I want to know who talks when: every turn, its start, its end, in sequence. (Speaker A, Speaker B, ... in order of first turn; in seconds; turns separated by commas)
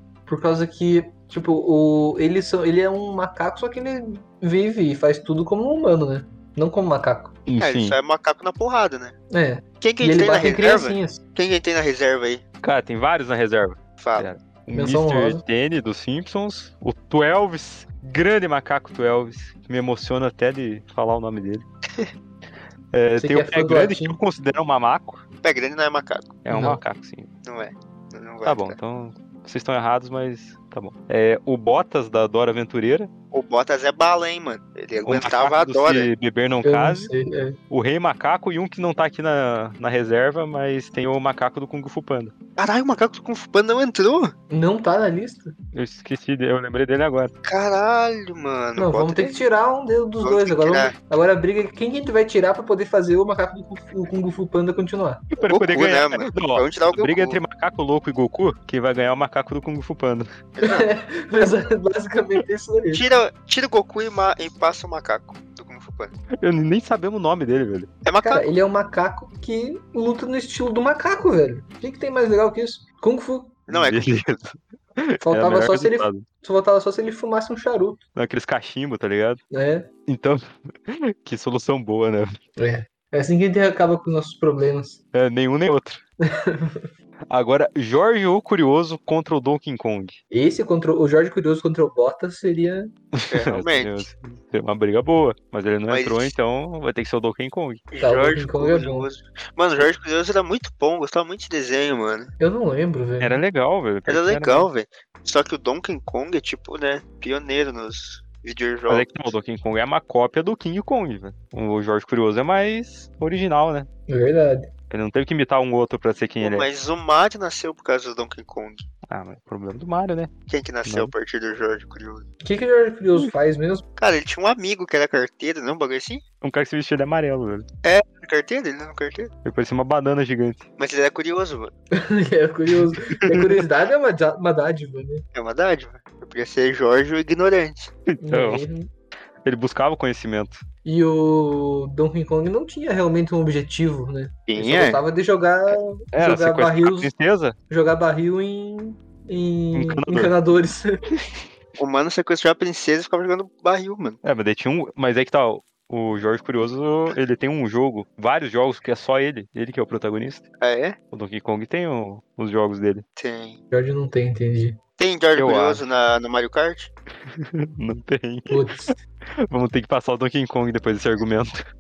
Speaker A: 0.3-7.3, Speaker B: 7.5-8.0, Speaker C: 7.6-9.2, Speaker A: 9.3-11.2, Speaker C: 9.8-12.4, Speaker B: 12.6-21.6, Speaker C: 14.0-14.3, Speaker A: 14.7-15.4, Speaker B: 22.9-25.2, Speaker A: 23.2-24.2, Speaker C: 25.4-26.4, Speaker B: 26.4-27.3, Speaker A: 26.5-26.8, Speaker C: 27.5-28.8, Speaker B: 28.4-33.1, Speaker C: 33.3-36.1, Speaker B: 35.0-37.1, Speaker A: 36.6-37.6, Speaker B: 37.7-42.3, Speaker C: 42.6-44.3, Speaker A: 44.5-45.5, Speaker B: 45.7-47.3, Speaker C: 47.5-49.3, Speaker A: 48.8-55.3, Speaker C: 50.2-51.0, Speaker B: 55.4-60.3, Speaker C: 55.5-57.4, Speaker C: 60.6-60.9, Speaker A: 60.6-63.0, Speaker C: 62.9-66.1, Speaker B: 66.4-67.9, Speaker C: 68.0-68.5, Speaker A: 68.3-73.7, Speaker C: 73.7-74.4, Speaker B: 73.7-76.3, Speaker A: 75.2-78.0, Speaker B: 78.2-79.4, Speaker A: 79.5-79.9, Speaker B: 80.1-82.3, Speaker A: 82.6-85.0, Speaker B: 85.1-86.0, Speaker A: 86.3-86.9, Speaker B: 87.3-90.2, Speaker A: 90.3-92.9, Speaker B: 93.1-97.8, Speaker C: 93.3-94.1, Speaker C: 95.9-96.3, Speaker C: 97.9-102.3, Speaker A: 98.0-99.1, Speaker A: 102.4-103.4, Speaker B: 103.2-104.7, Speaker C: 104.1-109.3, Speaker B: 108.9-113.9, Speaker A: 114.1-114.7, Speaker B: 114.9-116.7, Speaker C: 116.4-118.8, Speaker B: 119.1-120.3, Speaker C: 120.5-122.3, Speaker B: 120.8-121.1, Speaker A: 122.4-123.8, Speaker C: 124.0-126.2, Speaker B: 126.4-127.7, Speaker C: 127.8-129.3, Speaker B: 129.4-130.7, Speaker C: 130.8-131.7, Speaker A: 131.9-135.2, Speaker B: 132.7-133.6, Speaker C: 135.3-137.9, Speaker B: 138.1-138.7, Speaker A: 138.2-138.9, Speaker B: 139.4-140.6, Speaker A: 140.8-147.1, Speaker C: 144.5-145.0, Speaker B: 146.1-147.6, Speaker A: 147.7-151.0, Speaker B: 149.8-150.3, Speaker C: 151.8-154.2, Speaker B: 154.2-160.5, Speaker C: 160.6-161.0, Speaker B: 161.1-163.1, Speaker C: 163.2-163.6, Speaker A: 163.7-164.8, Speaker C: 165.0-166.9, Speaker B: 165.4-165.8, Speaker B: 167.2-168.9, Speaker A: 168.5-168.9, Speaker B: 169.5-171.6